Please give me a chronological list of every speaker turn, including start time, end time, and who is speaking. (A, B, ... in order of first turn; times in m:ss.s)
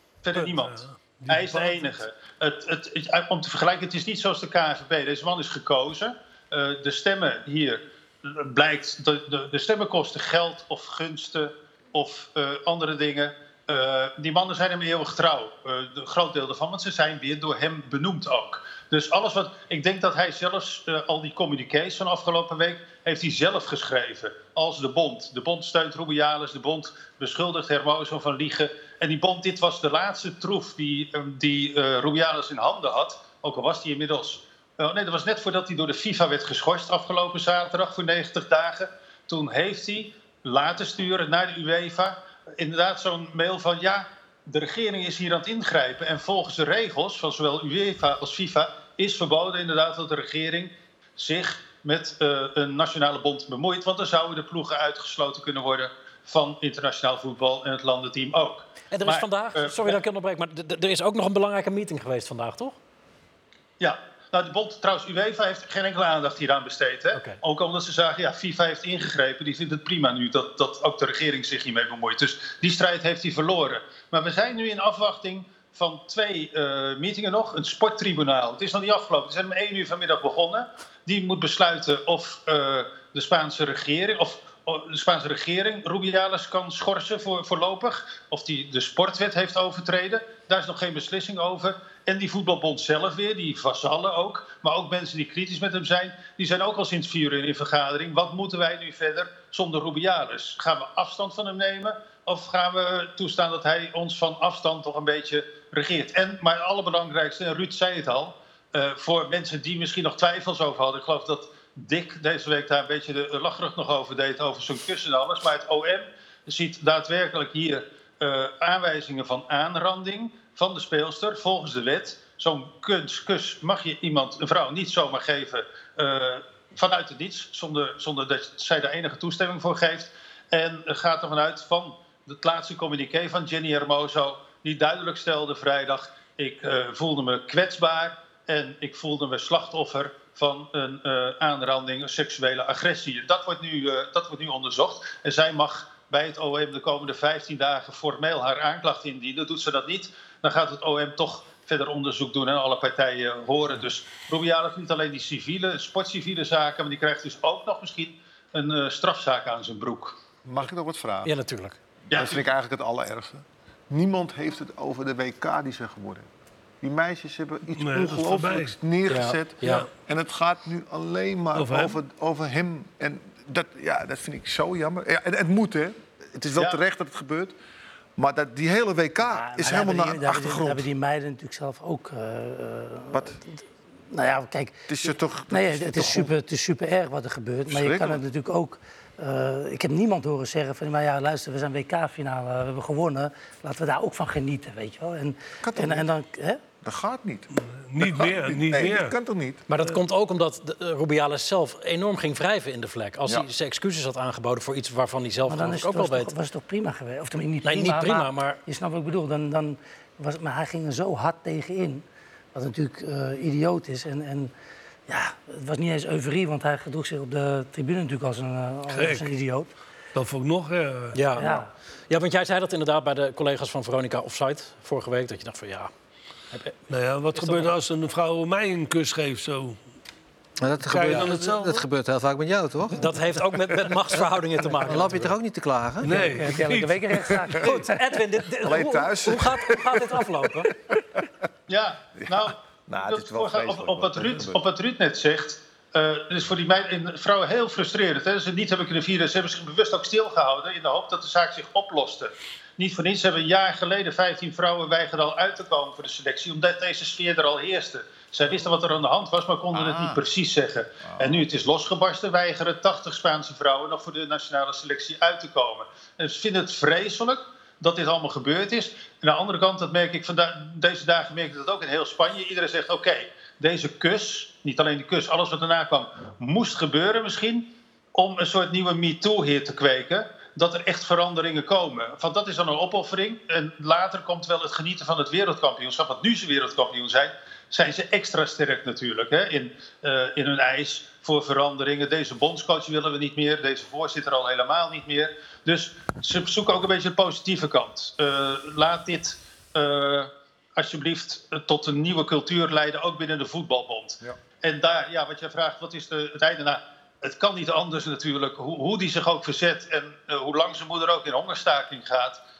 0:00.2-1:00.0 A
0:00.3-0:01.9 B
0:58.9-1:02.8 C
1:03.8-2:40.2 A
1:07.1-1:07.4 C
2:40.4-2:41.3 D
2:41.2-2:41.8 C
2:42.1-2:42.4 A
2:42.1-2:46.3 D
2:46.8-2:57.5 D
2:47.8-2:48.8 B
2:49.1-2:49.9 C
2:49.6-2:49.9 B
2:51.5-2:52.0 B
2:56.5-2:56.8 A
2:58.2-3:00.9 D
2:59.2-3:03.4 E
3:04.1-3:04.8 E
3:04.9-3:06.3 D
3:05.5-3:16.6 E
3:07.7-3:08.2 D
3:15.6-3:16.1 D
3:16.8-3:17.5 D
3:17.6-3:19.2 B
3:18.0-3:19.6 D
3:19.7-3:26.3 C
3:25.5-3:34.5 E
3:27.6-3:28.6 C
3:35.1-3:39.7 E
3:38.9-3:39.3 B
3:40.1-3:41.2 B
3:41.1-3:45.9 C
3:41.4-3:41.7 E
3:46.9-3:49.8 B
3:47.4-3:47.7 C
3:50.6-3:53.0 F
3:50.9-3:51.8 B
3:53.0-3:55.3 C
3:54.8-3:56.2 F
3:56.0-3:57.6 B
3:56.2-3:58.0 E
3:57.6-4:00.7 C
3:58.6-4:00.2 D
4:01.7-5:12.4 A
4:02.2-4:04.6 D
4:19.7-4:20.2 D
4:21.0-4:21.4 D